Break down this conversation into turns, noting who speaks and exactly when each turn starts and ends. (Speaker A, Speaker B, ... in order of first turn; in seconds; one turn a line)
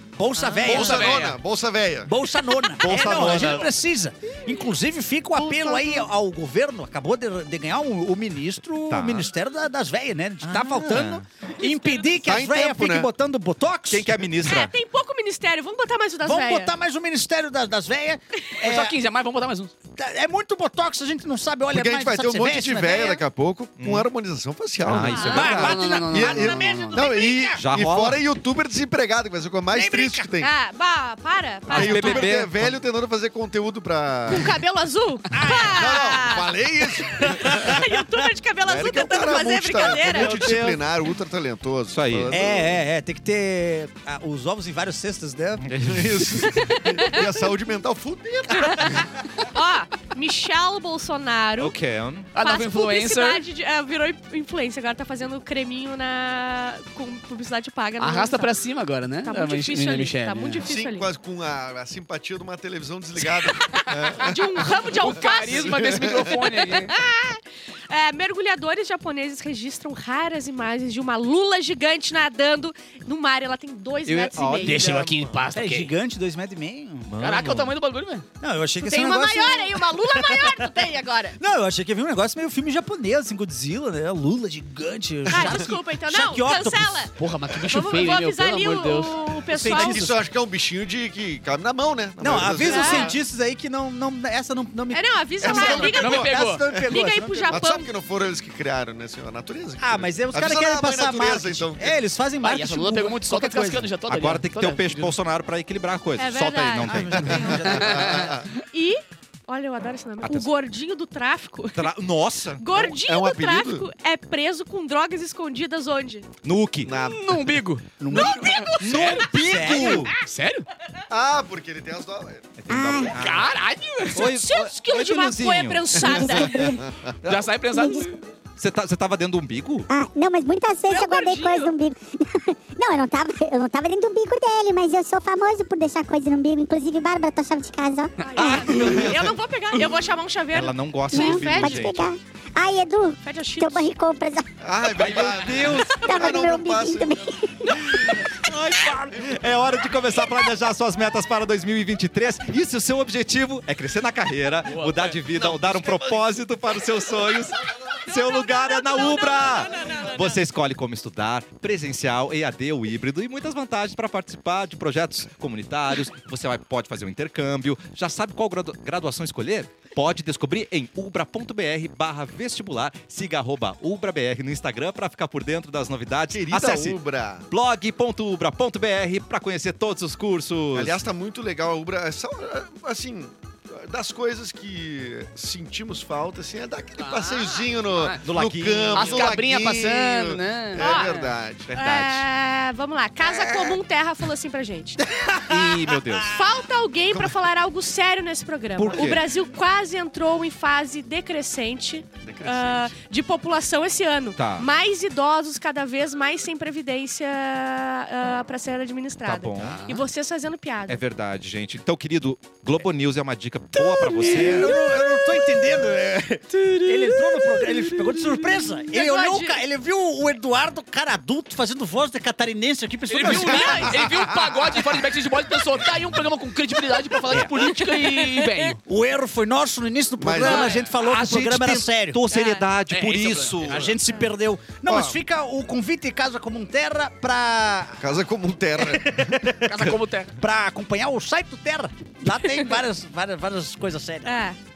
Speaker A: 0.2-1.2
Speaker B: 0.6-1.4
Speaker C: 0.6-2.1
Speaker A: 2.0-14.2
Speaker D: 2.8-3.7
Speaker E: 5.4-6.1
Speaker D: 8.9-9.3
Speaker D: 10.4-11.2
Speaker E: 11.6-12.1
Speaker C: 12.2-13.1
Speaker D: 13.9-14.7
Speaker E: 14.4-16.7
Speaker A: 16.2-19.0
Speaker B: 18.6-19.7
Speaker A: 20.0-23.2
Speaker C: 21.7-30.5
Speaker D: 23.8-24.1
Speaker D: 24.8-25.9
Speaker E: 25.1-25.5
Speaker A: 25.2-27.4
Speaker B: 25.4-27.1
Speaker E: 26.9-27.6
Speaker D: 27.6-28.2
Speaker A: 29.7-30.3
Speaker E: 30.4-32.3
Speaker D: 31.7-32.7
Speaker C: 31.7-34.6
Speaker E: 34.3-40.6
Speaker A: 35.3-36.1
Speaker C: 35.7-37.8
Speaker A: 37.2-38.0
Speaker C: 38.6-42.8
Speaker A: 40.0-40.8
Speaker D: 41.9-42.4
Speaker A: 42.3-45.7
Speaker D: 45.6-46.5
Speaker C: 45.8-49.1
Speaker E: 46.5-47.2
Speaker E: 48.5-51.8
Speaker D: 51.6-52.3
Speaker B: 52.3-53.4
Speaker E: 52.4-58.5
Speaker B: 58.0-60.7
Speaker E: 59.2-61.1
Speaker C: 60.6-66.3
Speaker E: 64.2-74.8
Speaker B: 64.8-67.0
Speaker D: 74.1-75.3
Speaker B: 74.6-75.9
Speaker A: 74.7-77.1
Speaker D: 77.1-77.7
Speaker B: 77.2-78.2
Speaker A: 78.4-80.8
Speaker E: 78.8-81.4
Speaker A: 81.4-87.1
Speaker C: 85.3-85.8
Speaker E: 85.3-87.1
Speaker B: 87.2-89.2
Speaker E: 87.7-90.1
Speaker A: 89.5-90.2
Speaker C: 89.7-93.2
Speaker A: 92.2-97.6
Speaker E: 92.7-93.1
Speaker E: 94.9-96.3
Speaker C: 95.4-97.0
Speaker B: 95.5-96.7
Speaker E: 96.9-97.9
Speaker C: 97.5-102.0
Speaker A: 99.8-103.9
Speaker B: 102.4-105.1
Speaker D: 104.1-107.4
Speaker E: 106.2-107.9
Speaker A: 106.8-108.3
Speaker C: 107.2-108.4
Speaker B: 107.8-108.3
Speaker E: 108.7-111.9
Speaker D: 110.2-110.5
Speaker D: 111.8-112.8
Speaker E: 112.6-116.3
Speaker C: 112.9-113.9
Speaker D: 116.4-116.9
Speaker C: 116.9-117.4
Speaker B: 117.0-119.3
Speaker A: 118.0-120.1
Speaker E: 118.1-118.8
Speaker D: 118.8-120.1
Speaker E: 119.7-120.0
Speaker B: 120.1-120.7
Speaker C: 121.1-122.5
Speaker D: 122.6-123.5
Speaker F: 122.7-123.2
Speaker B: 123.1-124.2
Speaker D: 124.1-126.0
Speaker E: 124.2-126.8
Speaker C: 125.9-127.2
Speaker F: 126.1-126.8
Speaker B: 127.2-128.2
Speaker F: 127.7-128.2
Speaker D: 128.6-129.9
Speaker F: 129.9-138.8
Speaker E: 130.9-131.7
Speaker E: 138.2-142.0
Speaker D: 138.4-139.2
Speaker C: 138.9-139.3
Speaker D: 140.5-142.1
Speaker F: 141.1-144.5
Speaker E: 143.2-143.9
Speaker C: 144.6-147.2
Speaker D: 145.0-146.1
Speaker F: 145.9-147.8
Speaker E: 147.6-148.1
Speaker D: 148.0-177.0
Speaker B: 154.7-156.2
Speaker E: 158.1-160.4
Speaker C: 159.8-160.1
Speaker C: 176.3-177.5
Speaker D: 177.5-181.0
Speaker C: 180.7-192.2
Speaker B: 187.0-188.2
Speaker D: 188.2-189.4
Speaker B: 188.9-191.3
Speaker E: 190.8-191.2
Speaker E: 191.7-195.0
Speaker C: 193.2-193.8
Speaker C: 195.1-195.4
Speaker A: 195.4-196.3
Speaker D: 195.4-196.3
Speaker E: 196.3-211.0
Speaker C: 197.1-197.4
Speaker D: 198.8-199.3
Speaker C: 202.2-202.9
Speaker D: 204.4-204.7
Speaker D: 209.2-209.8
Speaker B: 209.6-210.1
Speaker D: 210.9-214.8
Speaker E: 213.8-215.7
Speaker A: 214.2-224.2
Speaker E: 216.6-219.6
Speaker B: 223.1-228.8
Speaker E: 223.2-224.1
Speaker A: 227.3-227.7
Speaker E: 227.8-228.5
Speaker A: 228.8-232.2
Speaker C: 230.2-231.2
Speaker B: 230.4-230.9
Speaker D: 231.0-234.0
Speaker E: 232.3-232.6
Speaker B: 232.9-234.0
Speaker A: 233.7-238.2
Speaker C: 234.9-235.2
Speaker C: 238.0-239.4
Speaker A: 238.8-244.4
Speaker B: 239.6-240.4
Speaker E: 242.4-242.8
Speaker E: 244.2-244.6